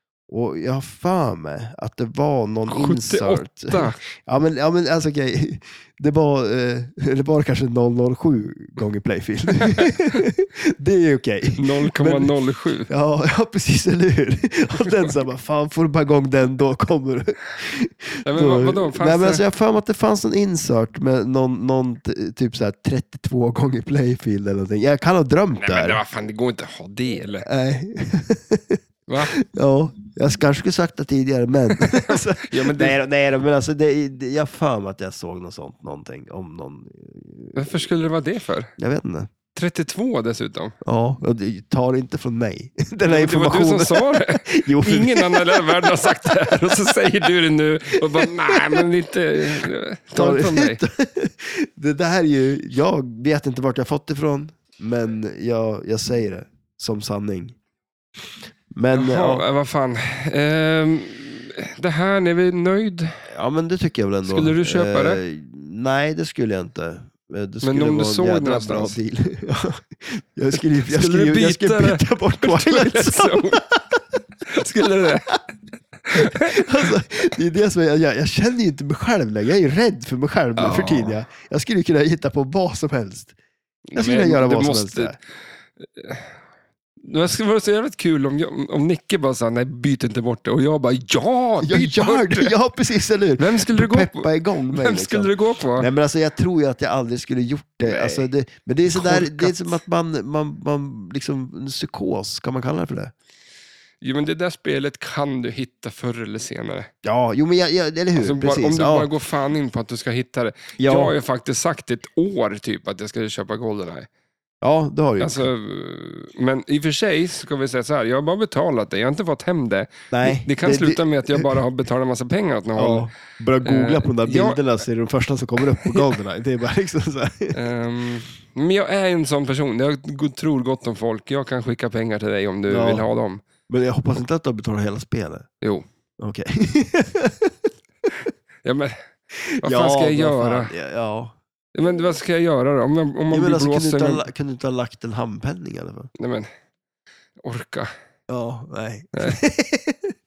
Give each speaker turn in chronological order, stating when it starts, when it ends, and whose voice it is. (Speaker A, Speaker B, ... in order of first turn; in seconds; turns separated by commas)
Speaker A: 0.3-12.3, Speaker B: 2.7-4.0, Speaker B: 9.7-10.2, Speaker B: 11.6-12.9, Speaker A: 12.9-26.0, Speaker B: 18.3-19.4, Speaker B: 25.6-27.5, Speaker A: 27.4-37.9, Speaker B: 29.1-29.3, Speaker B: 31.7-33.0, Speaker B: 37.5-38.7, Speaker A: 38.8-39.3, Speaker B: 39.5-40.8, Speaker A: 40.8-47.3, Speaker B: 43.0-50.8, Speaker A: 48.0-48.9, Speaker A: 50.1-57.5, Speaker A: 58.7-59.4, Speaker B: 58.9-63.3, Speaker A: 63.3-74.0, Speaker B: 64.2-65.2, Speaker B: 67.6-69.0, Speaker B: 70.5-73.6, Speaker B: 74.5-75.4, Speaker B: 76.0-76.9, Speaker A: 76.1-83.3, Speaker B: 80.6-81.2, Speaker B: 83.9-85.1, Speaker A: 84.0-85.2, Speaker B: 85.8-86.4, Speaker B: 87.0-92.5, Speaker A: 91.6-103.1, Speaker B: 93.4-95.9, Speaker B: 97.8-98.2, Speaker B: 98.9-99.8, Speaker B: 104.0-106.9, Speaker A: 107.0-109.1, Speaker B: 108.1-114.1, Speaker A: 110.8-111.1, Speaker A: 114.6-115.5, Speaker B: 115.2-123.1, Speaker A: 120.1-121.6, Speaker A: 122.8-127.5, Speaker B: 123.6-124.6, Speaker B: 125.7-126.0, Speaker B: 127.5-133.4, Speaker A: 132.7-133.1, Speaker A: 133.7-135.5, Speaker B: 135.6-135.8, Speaker A: 136.2-137.6, Speaker B: 138.6-139.0, Speaker A: 139.3-141.3, Speaker B: 139.6-140.7, Speaker B: 141.7-144.2, Speaker A: 143.3-146.1, Speaker B: 146.2-146.5, Speaker B: 147.4-147.9, Speaker A: 148.3-150.1, Speaker B: 149.1-149.4